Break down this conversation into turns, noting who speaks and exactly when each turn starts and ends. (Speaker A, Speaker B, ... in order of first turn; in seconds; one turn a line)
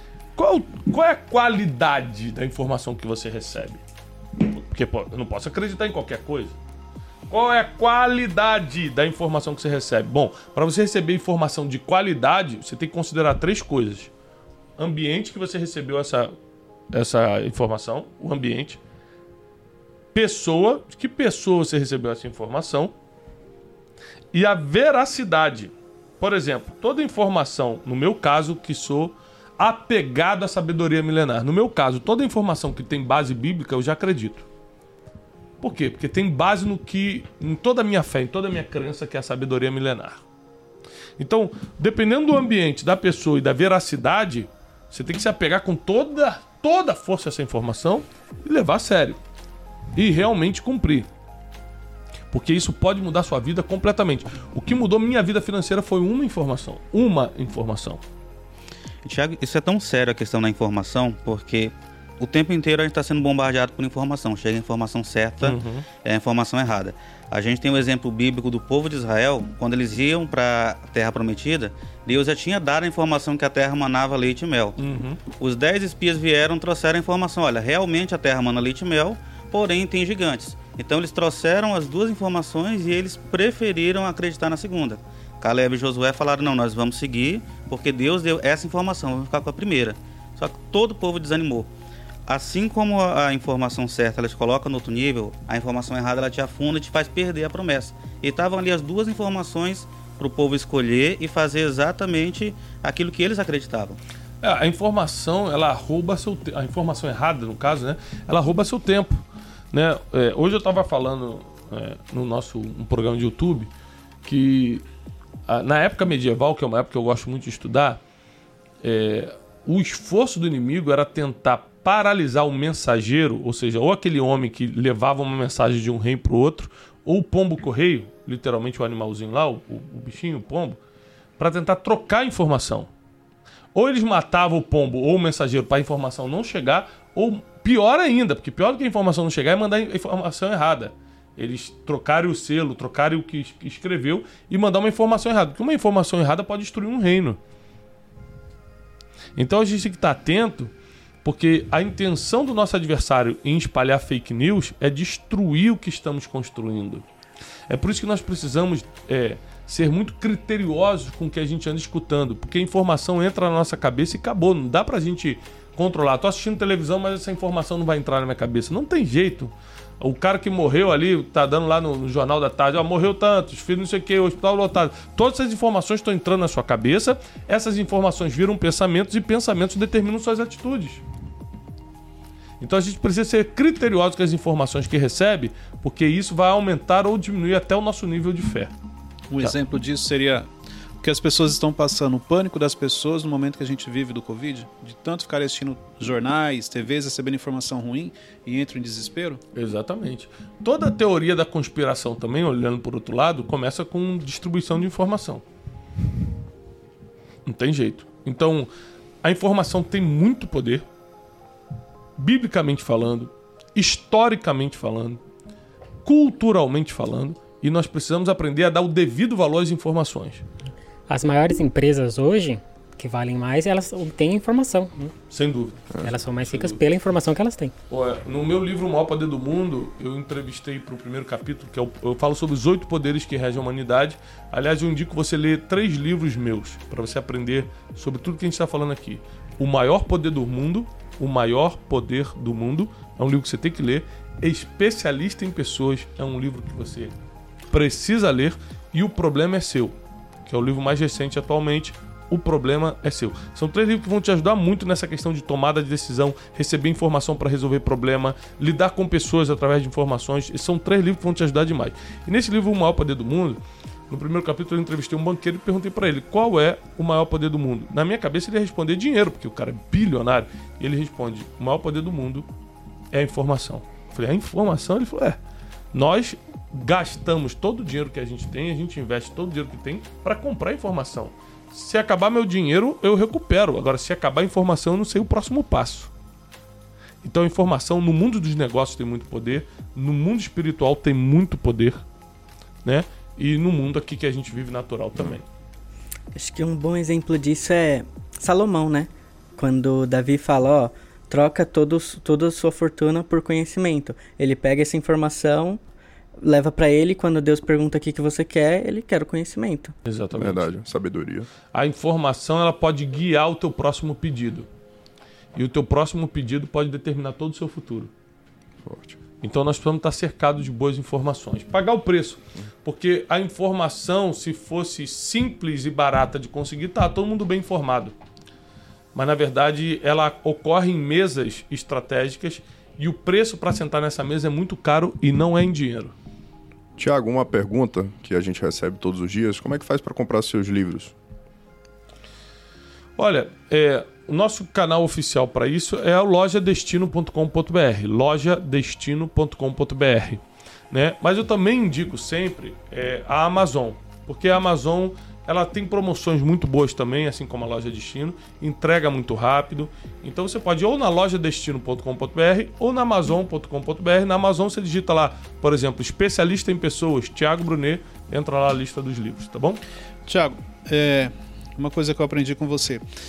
Speaker A: 0.3-3.8
Speaker A: 4.4-6.6
Speaker A: 7.3-14.1
Speaker A: 14.8-16.3
Speaker A: 16.9-18.8
Speaker A: 20.1-22.9
Speaker A: 24.3-34.5
Speaker A: 35.6-40.2
Speaker A: 41.2-49.2
Speaker A: 49.9-51.1
Speaker A: 52.3-58.0
Speaker B: 59.0-74.8
Speaker A: 65.4-65.8
Speaker A: 74.8-75.2
Speaker B: 75.3-91.7
Speaker B: 92.3-104.0
Speaker A: 104.4-113.7
Speaker A: 114.2-114.8
Speaker A: 115.5-118.0
Speaker A: 118.8-130.8
Speaker A: 131.4-132.9
Speaker A: 133.7-147.4
Speaker A: 149.3-150.7
Speaker A: 151.2-157.1
Speaker A: 157.7-181.0
Speaker A: 182.6-188.7
Speaker C: 189.3-190.5
Speaker C: 191.0-199.4
Speaker A: 199.5-205.4
Speaker A: 207.4-208.7
Speaker A: 209.2-210.8
Speaker A: 212.2-215.2
Speaker A: 216.0-220.4
Speaker D: 221.1-225.1
Speaker A: 225.3-226.8
Speaker D: 226.0-227.7
Speaker A: 227.9-247.1
Speaker A: 247.7-272.5
Speaker A: 273.1-275.4
Speaker A: 275.9-286.1
Speaker A: 287.2-292.0
Speaker A: 292.8-295.4
Speaker E: 296.3-305.8
Speaker E: 306.4-309.9
Speaker A: 310.1-310.7
Speaker F: 310.3-311.5
Speaker A: 311.7-314.7
Speaker A: 315.5-318.1
Speaker F: 318.8-319.2
Speaker A: 319.4-328.1
Speaker A: 329.1-336.1
Speaker F: 337.0-341.1
Speaker A: 343.2-369.8
Speaker C: 370.2-373.0